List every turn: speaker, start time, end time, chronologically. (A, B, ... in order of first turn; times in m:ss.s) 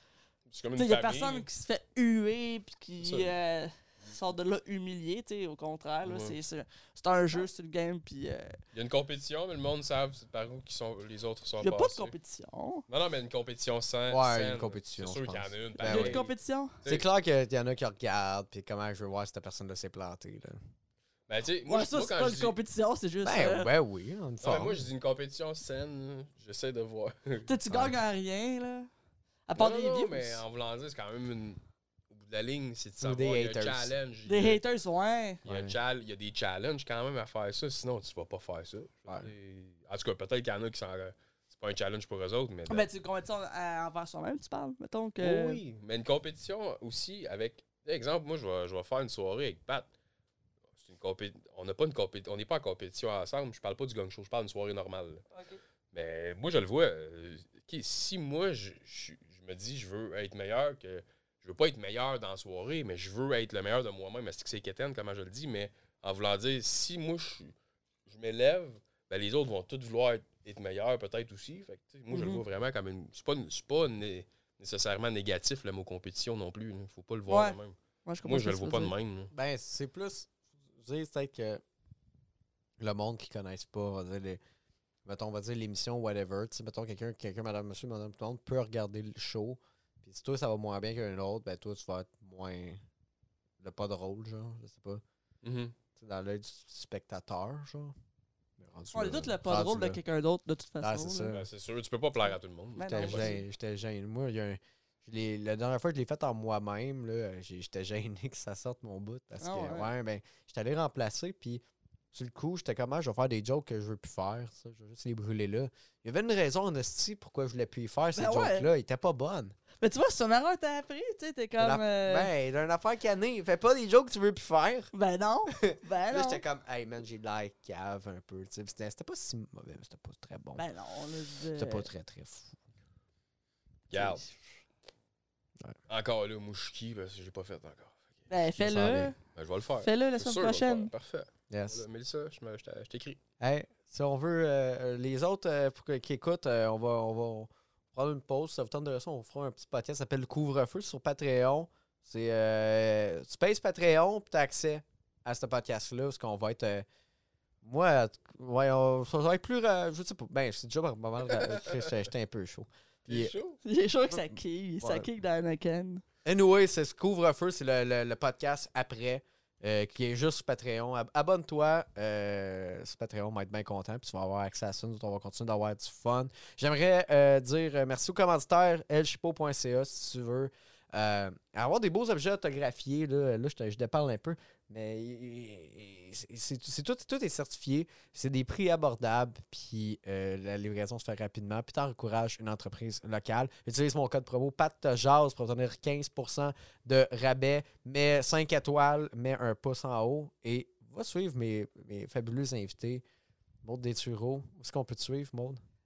0:00.5-0:01.5 A
0:00.8-0:08.6 B
0:03.0-0:03.3 A
0:06.0-0:06.4 A
0:08.7-0:12.2 A
0:11.6-0:12.8 B
0:12.9-0:16.3 A
0:14.1-0:16.2 C
0:15.8-0:16.8 B
0:16.8-0:20.6 C
0:21.3-0:22.6 A
0:21.7-0:23.7 B
0:23.2-0:24.8 C
0:24.4-0:27.5 A
0:27.5-0:28.9 B
0:27.7-0:28.0 C
0:29.5-0:30.4 B
0:29.6-0:34.6 A
0:33.0-0:34.0 C
0:34.3-0:35.4 B
0:35.4-0:35.8 C
0:35.4-0:42.9 A
0:42.7-0:45.6 B
0:45.2-0:49.9 A
0:50.8-0:55.2 A
0:55.3-0:55.6 B
0:55.9-1:07.5 A
1:08.1-1:19.3 A
1:12.1-1:12.4 B
1:17.3-1:18.9 B
1:19.3-1:21.6 C
1:22.8-1:24.4 C
1:25.0-1:32.8 C
1:33.6-1:35.0 C
1:35.4-1:35.8 A
1:36.0-1:38.0 C
1:38.6-1:40.0 C
1:38.9-1:41.4 B
1:40.8-1:41.4 C
1:41.3-1:43.4 A
1:42.8-1:43.4 B
1:42.9-1:59.6 C
1:49.4-1:49.9 B
1:58.2-1:58.7 B
1:59.8-2:02.3 B
2:01.6-2:04.9 C
2:04.9-2:06.4 B
2:05.5-2:10.6 C
2:10.6-2:11.9 B
2:11.6-2:12.6 C
2:13.9-2:14.2 A
2:13.9-2:14.3 B
2:15.9-2:18.3 A
2:18.3-2:19.2 B
2:18.6-2:19.1 C
2:19.4-2:23.2 A
2:19.8-2:20.9 B
2:21.5-2:21.8 C
2:23.4-2:36.9 C
2:37.6-2:43.4 C
2:41.3-2:42.0 A
2:43.1-2:43.6 A
2:43.6-2:46.0 B
2:44.8-2:45.1 C
2:46.2-3:23.0 C
3:23.6-3:25.6 C